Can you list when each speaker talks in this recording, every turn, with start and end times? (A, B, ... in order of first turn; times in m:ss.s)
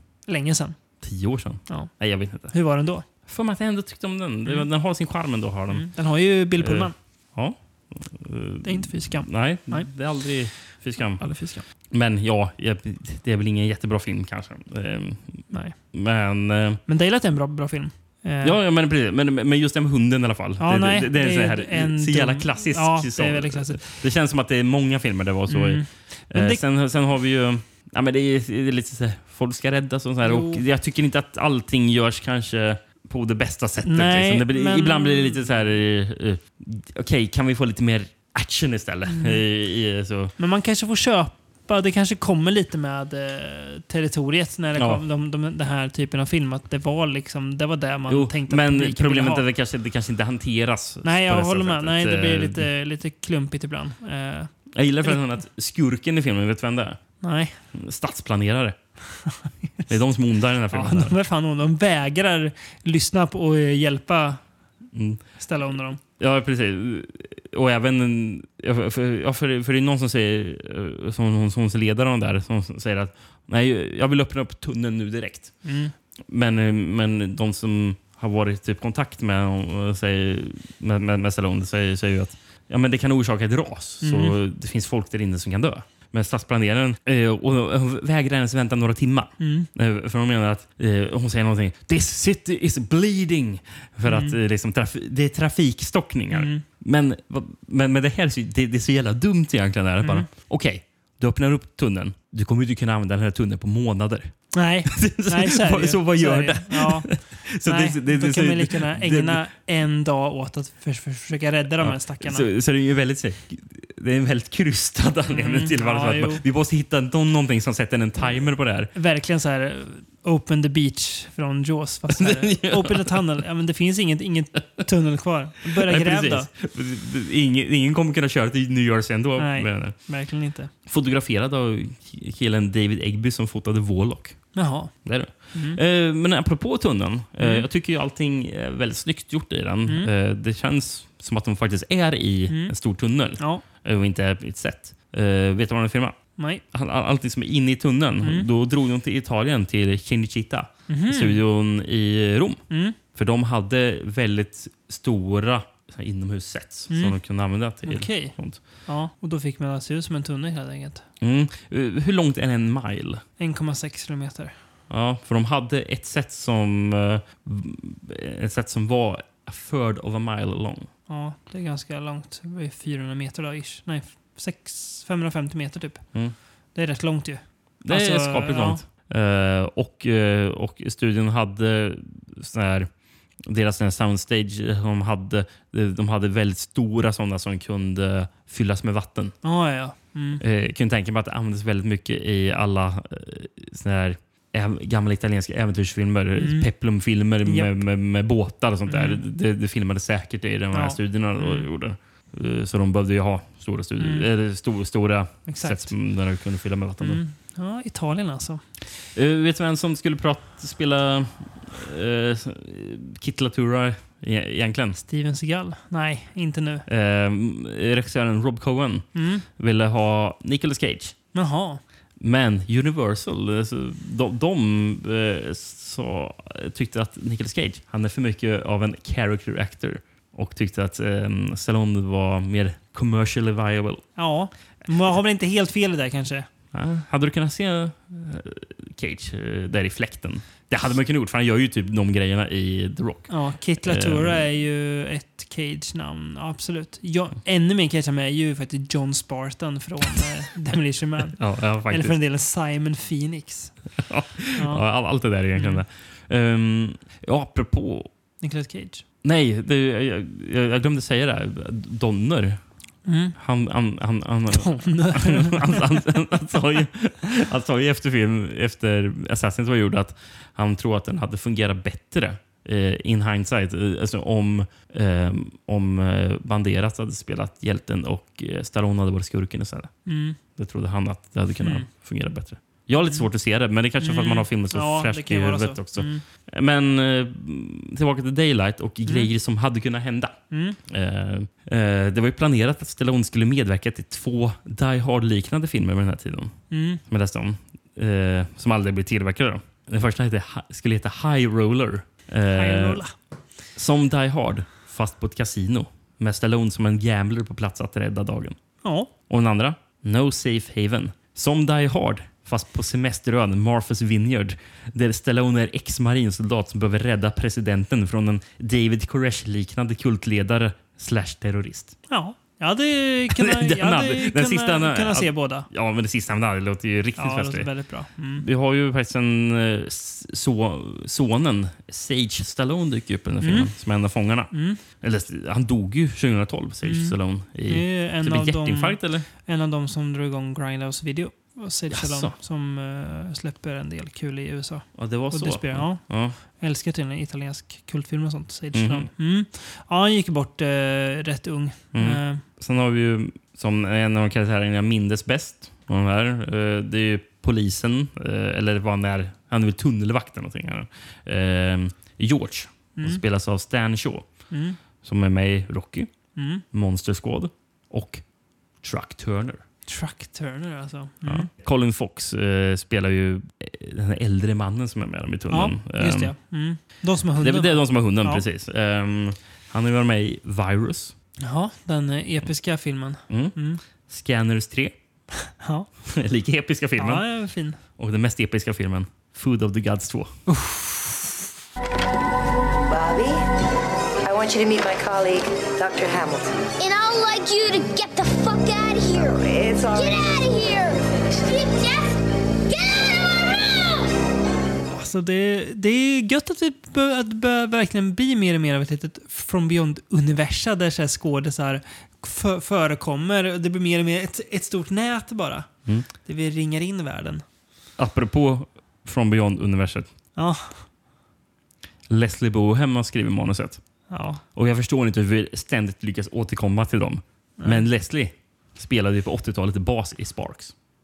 0:00.3-0:01.0 A
0:01.0-0:16.8 B
0:01.7-0:03.0 A
0:05.7-0:06.9 A
0:08.6-0:11.6 A
0:15.5-0:15.8 A
0:16.8-0:18.5 A
0:18.4-0:40.3 B
0:20.6-0:23.9 A
0:25.5-0:26.6 A
0:30.2-0:30.6 A
0:33.8-0:35.8 A
0:39.1-0:39.4 A
0:40.4-0:49.4 A
0:44.8-0:45.0 B
0:48.1-0:52.7 B
0:51.0-0:55.2 A
0:54.7-0:57.1 B
0:57.2-0:57.6 A
0:57.7-0:59.0 B
0:59.9-1:01.2 B
1:00.7-1:04.4 A
1:04.9-1:05.4 B
1:05.4-1:06.0 A
1:06.0-1:15.6 B
1:15.6-1:15.9 A
1:16.3-1:49.4 B
1:24.0-1:24.3 A
1:29.4-1:29.7 A
1:34.0-1:34.4 A
1:36.3-1:36.6 A
1:40.0-1:40.3 A
1:44.5-1:52.4 A
1:51.8-1:58.9 B
1:55.3-1:56.4 A
1:58.2-2:06.5 A
2:02.2-2:03.2 B
2:05.7-2:10.1 B
2:09.4-2:10.7 A
2:10.8-2:26.2 B
2:14.5-2:15.8 A
2:17.4-2:17.6 A
2:22.5-2:22.7 A
2:23.4-2:23.6 A
2:26.4-2:26.6 A
2:26.7-2:38.8 B
2:30.9-2:31.4 A
2:32.7-2:33.0 A
2:36.9-2:37.2 A
2:37.8-2:41.0 A
2:41.2-2:43.2 B
2:43.4-2:44.6 A
2:44.9-2:50.9 B
2:51.1-2:58.8 A
2:57.8-3:09.4 B
3:09.4-3:10.4 A
3:10.4-3:27.2 B
3:16.4-3:16.7 A
3:17.4-3:17.7 A
3:18.9-3:19.2 A
3:20.7-3:21.7 A
3:24.0-3:24.2 A
3:25.5-3:26.0 A
3:27.0-3:28.8 A
3:29.1-3:35.0 B
3:35.1-3:36.8 A
3:36.9-3:41.2 B
3:39.1-3:39.4 A
3:41.3-3:41.8 A
3:42.2-3:54.3 B
3:54.2-3:56.5 A
3:56.7-4:04.4 B
4:03.3-4:13.9 A
4:11.4-4:12.2 B
4:14.1-4:18.1 B
4:14.6-4:14.8 A
4:15.5-4:15.8 A
4:18.4-4:19.0 A
4:19.2-5:03.0 B
4:23.0-4:23.3 A
4:24.5-4:25.8 A
4:40.0-4:40.4 A
4:41.6-4:41.9 A
4:44.0-4:46.2 A
4:50.5-4:50.8 A
4:56.7-4:57.0 A
5:02.5-5:03.2 A
5:03.7-5:08.8 B
5:08.8-5:09.1 A
5:09.3-5:22.0 B
5:22.1-5:25.7 A
5:23.4-5:39.2 B
5:27.2-5:28.4 A
5:33.4-5:33.7 A
5:34.5-5:34.8 A
5:36.8-5:37.1 A
5:37.7-5:52.4 A
5:41.9-5:42.3 B
5:44.9-5:46.4 B
5:48.7-5:49.1 B
5:51.9-6:09.6 B
6:03.0-6:03.2 A
6:04.5-6:04.8 A
6:06.4-6:06.6 A
6:09.9-6:11.5 A
6:11.2-6:16.4 B
6:15.5-6:18.4 A
6:16.9-6:21.1 B
6:21.4-6:23.8 A
6:23.3-6:24.9 B
6:25.6-6:25.9 A
6:26.2-6:30.4 B
6:27.0-6:27.8 A
6:30.5-6:31.4 A
6:32.9-6:33.4 C
6:34.2-6:36.6 C
6:36.8-6:42.1 D
6:39.4-6:40.5 C
6:42.7-6:44.1 D
6:44.9-6:57.4 A
6:58.0-7:00.1 B
7:00.4-7:00.9 A
7:02.1-7:10.7 B
7:04.1-7:04.4 A
7:07.6-7:07.9 A